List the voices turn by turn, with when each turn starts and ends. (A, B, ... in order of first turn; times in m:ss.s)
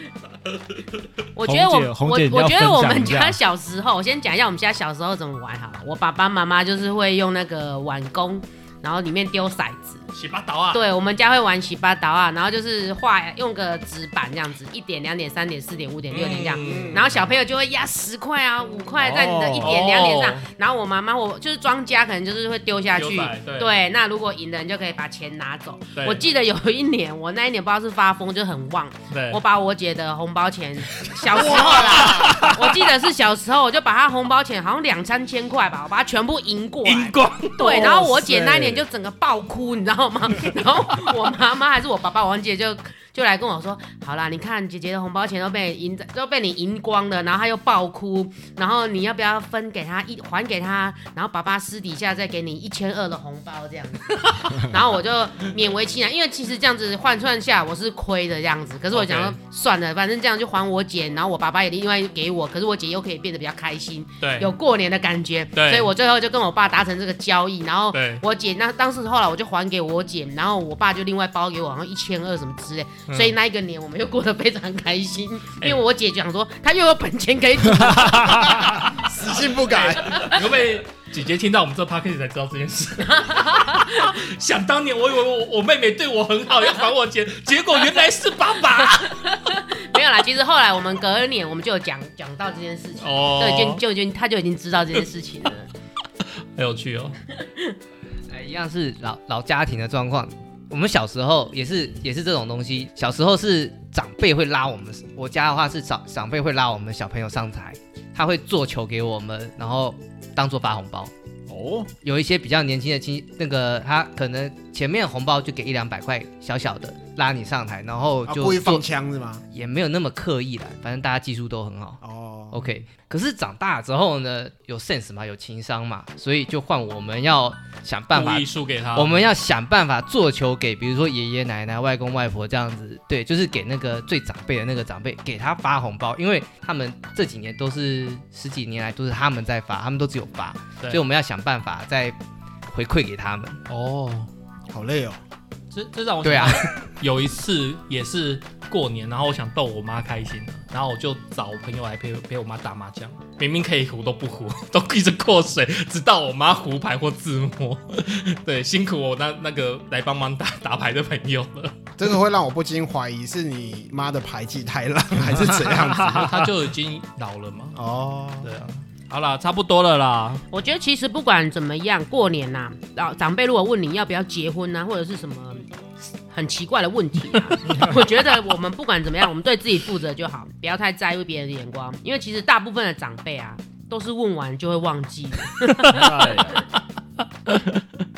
0:01.4-0:10.0 A
0:01.4-0:03.4 B
0:10.1-0:10.8 C
0:10.7-1:18.8 A
0:16.1-0:17.3 C
0:16.7-0:17.0 D
0:19.0-0:19.7 B
0:19.6-0:20.5 C
0:23.0-0:23.8 C
0:26.0-0:26.2 C
0:29.1-0:29.4 C
0:31.1-0:32.8 C
0:31.5-0:32.1 D
0:36.8-0:38.0 C
0:37.7-0:38.8 B
0:58.9-0:59.4 C
1:04.2-1:04.5 C
1:05.5-1:05.9 C
1:07.9-1:08.2 C
1:13.1-1:13.4 C
1:18.9-1:20.3 D
1:19.2-1:29.3 C
1:20.1-1:20.4 A
1:23.1-1:24.1 A
1:29.0-1:35.7 A
1:33.0-1:33.8 C
1:36.6-1:37.2 C
1:37.5-1:37.7 A
1:38.3-1:51.1 E
1:51.5-1:51.9 B
1:52.0-1:58.8 E
1:58.3-1:59.4 D
1:59.5-2:02.0 E
2:02.0-2:02.6 D
2:02.5-2:22.2 E
2:08.1-2:09.3 C
2:22.7-2:23.6 E
2:23.7-2:24.3 C
2:24.7-2:25.2 D
2:25.7-2:41.8 C
2:26.2-2:26.7 E
2:42.0-2:46.4 D
2:45.4-2:46.3 B
2:46.1-2:47.8 C
2:47.8-2:48.5 D
2:48.4-2:50.4 C
2:50.5-2:55.6 A
2:56.3-3:06.5 A
2:57.7-2:58.0 B
3:05.9-3:06.6 B